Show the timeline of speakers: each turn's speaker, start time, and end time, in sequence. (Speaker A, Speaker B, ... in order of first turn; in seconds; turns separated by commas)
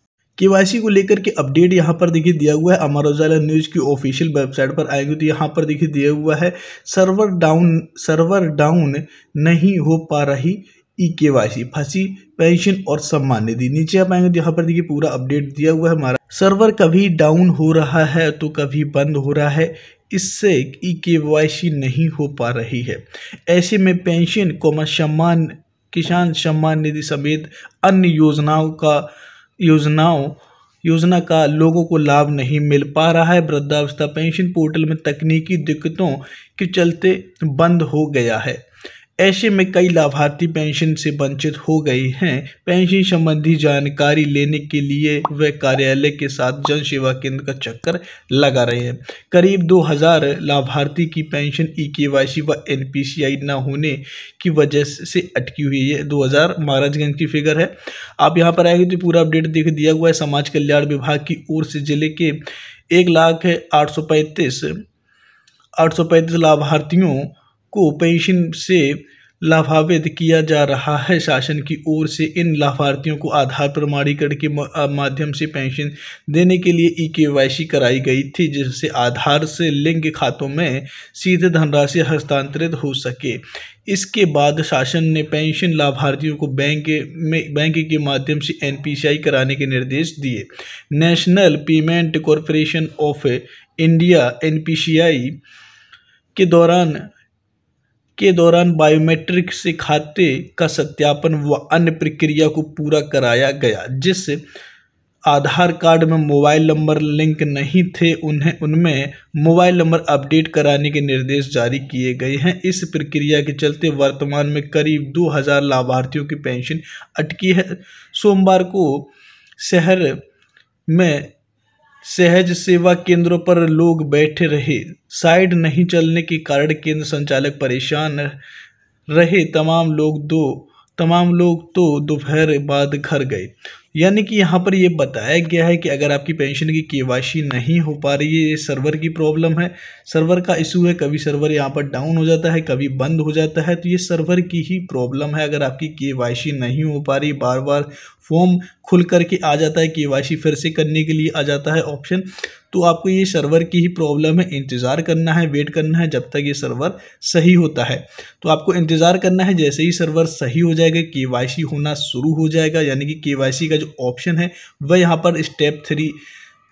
Speaker A: 0.4-29.1, Speaker A: 29.6-38.6, Speaker A: 39.2-62.4, Speaker A: 62.9-64.8, Speaker A: 65.8-95.4, Speaker A: 96.3-97.1, Speaker A: 98.2-104.4, Speaker A: 105.3-120.2, Speaker A: 120.9-121.3, Speaker A: 122.0-128.4, Speaker A: 129.1-166.2